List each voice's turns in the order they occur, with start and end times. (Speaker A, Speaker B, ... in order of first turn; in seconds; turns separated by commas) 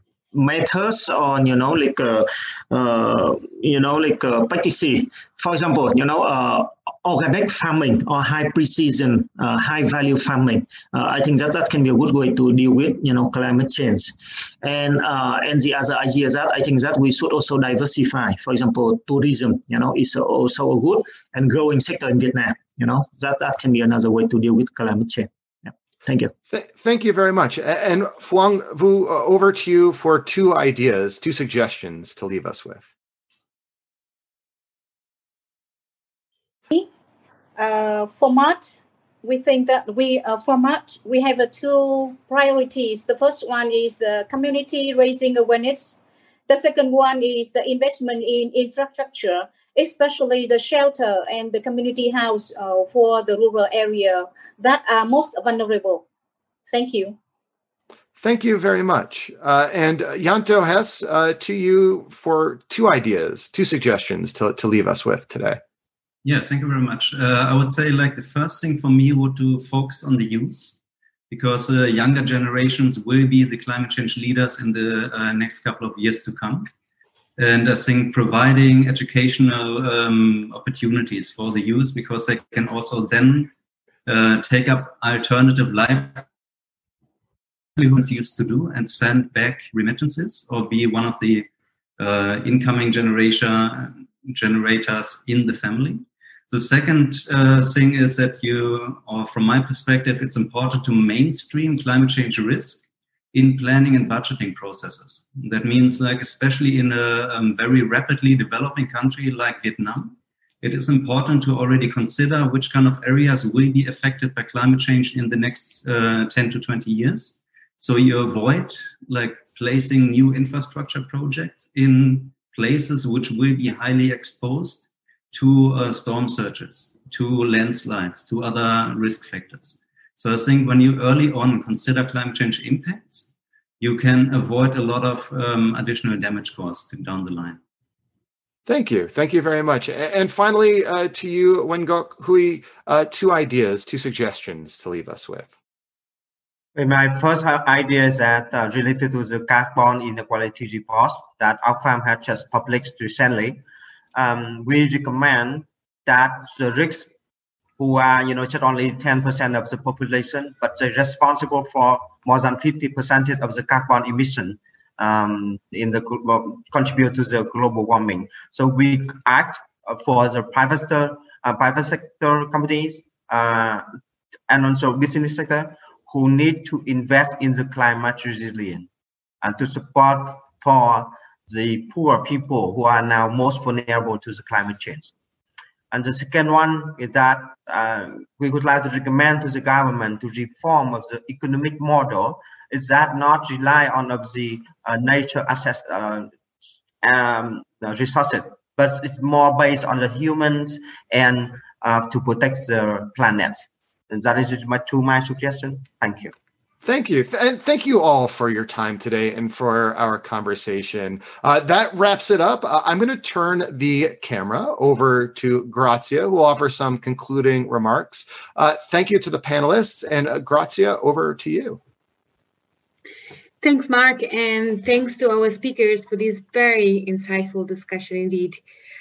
Speaker A: 0.3-26.3, Speaker B: 26.5-32.9, Speaker C: 37.6-56.0, Speaker C: 56.7-57.2, Speaker B: 58.2-65.6, Speaker D: 66.2-70.8, Speaker D: 71.3-76.7, Speaker D: 77.4-83.5, Speaker D: 84.1-86.3, Speaker D: 87.8-137.6, Speaker B: 138.7-145.6, Speaker E: 146.8-157.1, Speaker E: 157.8-173.9, Speaker E: 174.5-178.9, Speaker E: 179.4-185.1, Speaker E: 185.9-196.3, Speaker E: 197.0-206.3, Speaker B: 206.8-221.8, Speaker F: 223.6-228.6